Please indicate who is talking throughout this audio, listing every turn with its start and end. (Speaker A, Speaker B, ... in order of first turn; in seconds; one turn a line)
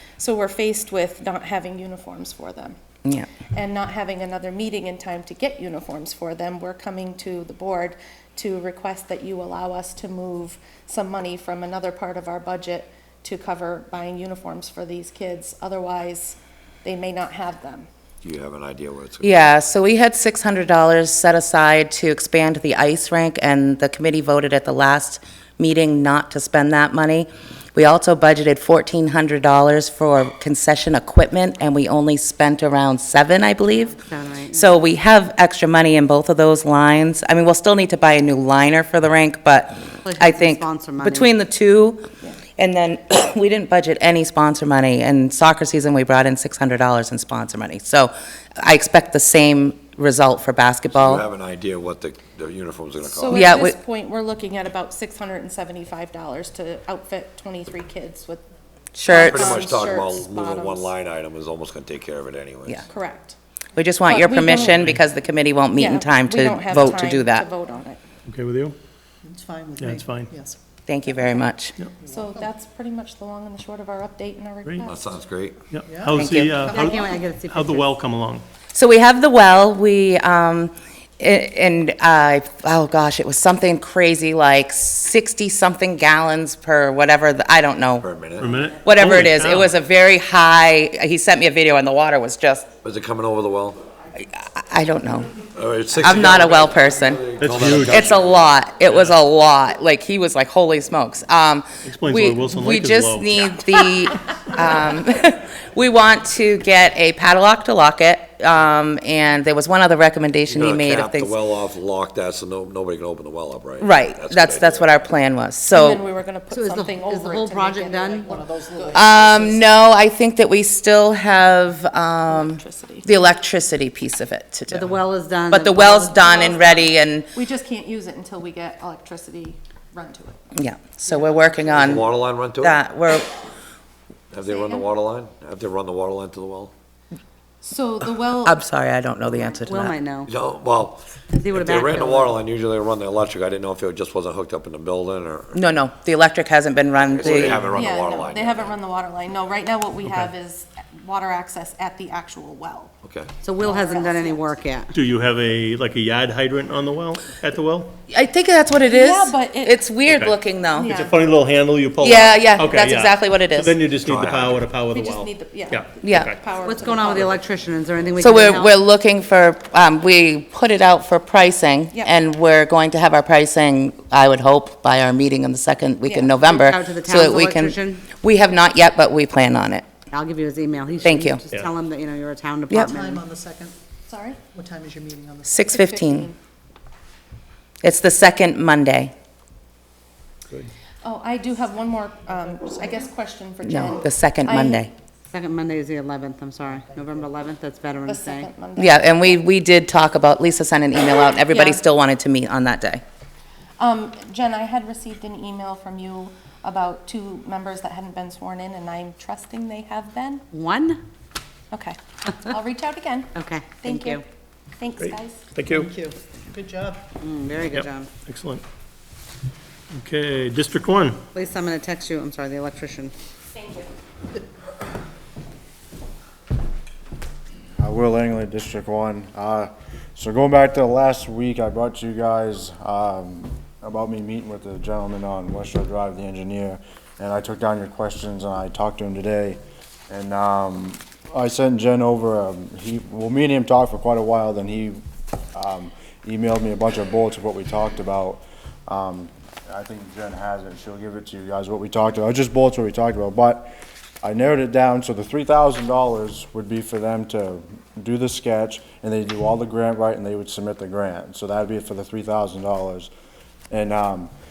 Speaker A: 0.2-2.7
Speaker A: 3.4-17.9
Speaker B: 18.2-19.5
Speaker C: 19.2-34.0
Speaker D: 34.0-34.7
Speaker C: 34.5-42.0
Speaker D: 40.0-41.3
Speaker C: 42.6-51.2
Speaker B: 50.9-53.5
Speaker A: 53.0-58.4
Speaker C: 53.3-53.8
Speaker C: 58.9-59.5
Speaker A: 59.0-60.9
Speaker B: 59.1-62.9
Speaker A: 62.9-63.4
Speaker C: 63.8-67.5
Speaker A: 64.1-64.8
Speaker E: 64.7-65.0
Speaker A: 65.7-68.0
Speaker E: 68.2-68.8
Speaker F: 69.2-70.6
Speaker E: 69.8-70.3
Speaker C: 70.8-71.7
Speaker F: 72.0-72.3
Speaker A: 72.1-75.2
Speaker E: 74.6-74.9
Speaker B: 74.8-75.7
Speaker E: 75.7-78.5
Speaker F: 75.8-77.0
Speaker C: 76.1-76.5
Speaker D: 76.6-77.8
Speaker C: 78.7-88.1
Speaker B: 88.0-88.6
Speaker E: 88.4-89.8
Speaker C: 88.8-92.7
Speaker B: 92.8-93.8
Speaker C: 94.2-95.3
Speaker B: 95.5-98.5
Speaker C: 95.9-97.2
Speaker E: 97.4-98.0
Speaker C: 97.8-111.4
Speaker E: 98.8-99.1
Speaker E: 101.8-103.6
Speaker B: 110.5-115.1
Speaker C: 113.8-116.0
Speaker A: 115.7-119.5
Speaker D: 116.5-118.4
Speaker F: 118.2-119.5
Speaker C: 118.9-124.9
Speaker A: 122.3-123.0
Speaker D: 124.7-126.8
Speaker C: 125.5-127.3
Speaker A: 126.2-126.8
Speaker A: 127.3-130.4
Speaker C: 130.5-133.3
Speaker A: 131.1-132.1
Speaker B: 131.7-132.8
Speaker B: 134.3-136.7
Speaker A: 134.4-134.9
Speaker A: 137.6-138.6
Speaker C: 138.4-139.9
Speaker A: 139.2-139.9
Speaker D: 139.6-140.3
Speaker B: 140.2-145.6
Speaker D: 141.3-142.4
Speaker C: 145.5-147.7
Speaker B: 147.0-148.8
Speaker A: 147.5-152.9
Speaker B: 153.0-153.3
Speaker D: 153.4-154.9
Speaker A: 153.6-154.5
Speaker E: 154.9-157.9
Speaker C: 158.1-160.9
Speaker A: 158.8-159.9
Speaker E: 160.1-160.3
Speaker A: 160.7-161.2
Speaker E: 160.9-166.4
Speaker C: 162.0-163.8
Speaker B: 164.0-164.6
Speaker A: 164.9-167.4
Speaker C: 166.0-166.3
Speaker D: 166.6-168.8
Speaker C: 168.2-179.8
Speaker A: 171.9-172.2
Speaker A: 176.0-176.4
Speaker D: 176.4-178.0
Speaker D: 180.1-183.2
Speaker C: 181.0-181.4
Speaker F: 182.9-183.7
Speaker A: 184.1-184.4
Speaker F: 184.5-185.6
Speaker C: 185.4-186.3
Speaker A: 185.6-186.4
Speaker C: 187.8-189.1
Speaker A: 191.0-194.9
Speaker C: 193.6-194.9
Speaker D: 195.3-198.5
Speaker A: 198.1-199.4
Speaker C: 198.8-203.0
Speaker A: 201.5-201.8
Speaker A: 203.8-210.4
Speaker D: 210.5-211.0
Speaker A: 211.7-214.2
Speaker D: 213.3-214.2
Speaker A: 214.8-215.4
Speaker E: 215.0-215.9
Speaker F: 215.7-217.0
Speaker D: 217.2-218.1
Speaker E: 217.7-218.6
Speaker E: 219.9-221.2
Speaker D: 221.3-223.1
Speaker G: 227.8-245.0
Speaker G: 245.5-263.1
Speaker G: 263.7-264.3